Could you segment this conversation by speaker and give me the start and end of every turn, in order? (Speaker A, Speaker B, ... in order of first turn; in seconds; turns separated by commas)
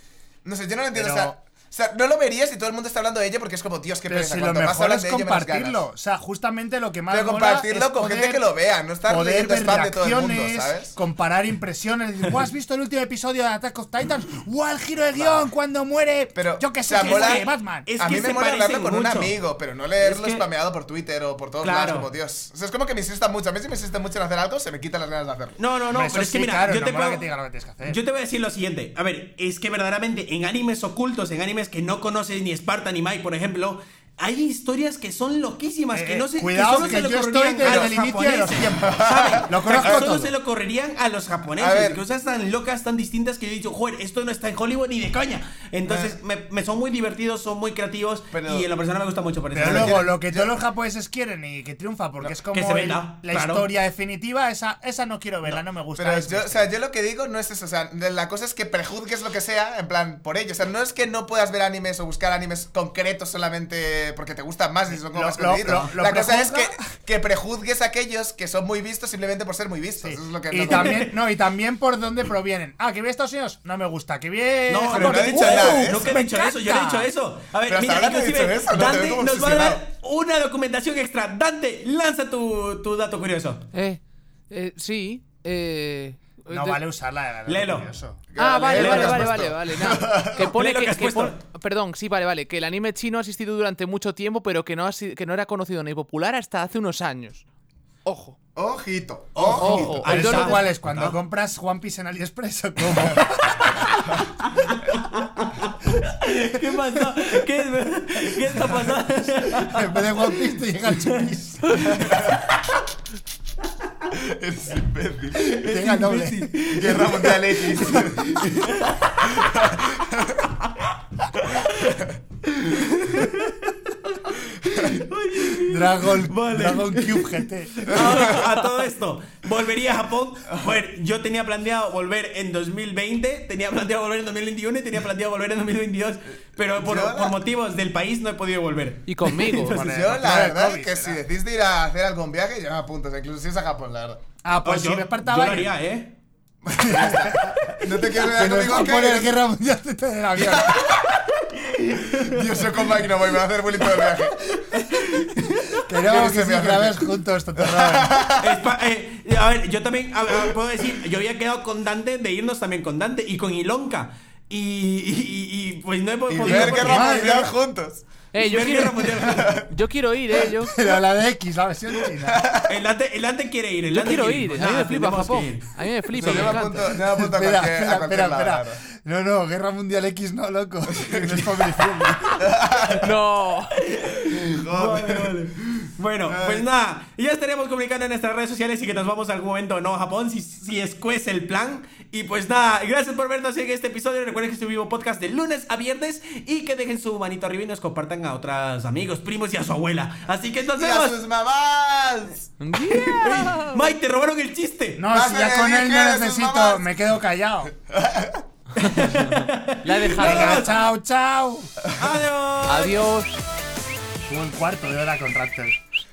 Speaker A: 0.4-5.8, Speaker B: 0.9-1.4, Speaker B: 4.1-8.4, Speaker A: 7.1-11.0, Speaker B: 9.0-17.9, Speaker A: 15.1-15.5, Speaker A: 16.4-17.5, Speaker C: 16.9-19.4, Speaker A: 18.0-25.6, Speaker C: 20.0-20.5, Speaker C: 21.6-22.1, Speaker C: 25.6-27.2, Speaker B: 25.9-28.0, Speaker C: 27.8-50.1, Speaker B: 35.9-40.3, Speaker A: 36.7-37.1, Speaker A: 37.6-37.9, Speaker A: 38.6-40.1, Speaker A: 41.6-42.0, Speaker A: 45.9-46.1, Speaker A: 48.3-48.7, Speaker B: 49.5-56.7, Speaker A: 49.6-50.5, Speaker C: 52.2-53.7, Speaker A: 55.5-71.1, Speaker B: 64.9-66.8, Speaker B: 70.0-77.1, Speaker C: 70.7-71.0, Speaker C: 74.7-83.6, Speaker A: 74.8-76.2, Speaker A: 77.7-79.8, Speaker D: 83.7-86.8, Speaker B: 86.5-88.2, Speaker C: 87.5-87.9, Speaker A: 88.3-90.5, Speaker D: 88.4-97.4, Speaker C: 88.7-89.3, Speaker C: 90.4-91.4, Speaker D: 98.0-98.4, Speaker A: 98.5-99.9, Speaker C: 99.3-101.2, Speaker D: 99.6-100.7, Speaker B: 100.0-104.1, Speaker C: 104.8-111.2, Speaker B: 109.6-111.9, Speaker A: 111.7-112.6, Speaker A: 114.1-115.6, Speaker C: 115.4-119.3, Speaker B: 115.6-116.4, Speaker A: 116.7-118.4, Speaker A: 119.2-120.5, Speaker C: 121.4-139.8, Speaker B: 125.6-127.9, Speaker D: 128.2-128.6, Speaker A: 130.5-130.8, Speaker A: 136.8-137.4, Speaker D: 139.1-139.8, Speaker B: 139.7-141.2, Speaker A: 139.7-144.2, Speaker B: 144.4-145.7, Speaker C: 144.6-146.2, Speaker A: 146.7-149.3, Speaker B: 146.7-151.1, Speaker A: 150.4-150.8, Speaker A: 152.0-154.4, Speaker C: 152.2-152.4, Speaker C: 154.7-155.8, Speaker B: 155.8-158.2, Speaker A: 156.0-158.6, Speaker C: 158.4-167.5, Speaker A: 166.3-168.0, Speaker B: 166.4-167.5, Speaker D: 168.3-170.8, Speaker C: 168.4-169.4, Speaker A: 169.3-169.7, Speaker B: 170.7-172.4, Speaker A: 172.2-172.8, Speaker C: 172.6-175.7, Speaker D: 173.9-177.0, Speaker A: 176.1-178.8, Speaker B: 176.9-182.4, Speaker A: 180.9-181.8, Speaker A: 182.4-183.1, Speaker D: 183.0-183.8, Speaker C: 183.8-201.2, Speaker A: 184.3-186.7, Speaker A: 200.8-202.5, Speaker D: 202.6-203.8, Speaker C: 203.0-205.0, Speaker B: 205.0-207.7, Speaker A: 205.1-207.0, Speaker A: 207.9-208.4, Speaker C: 208.8-210.9, Speaker D: 208.9-210.7, Speaker B: 210.2-211.7, Speaker C: 212.0-213.0, Speaker D: 212.6-213.4, Speaker B: 214.3-215.8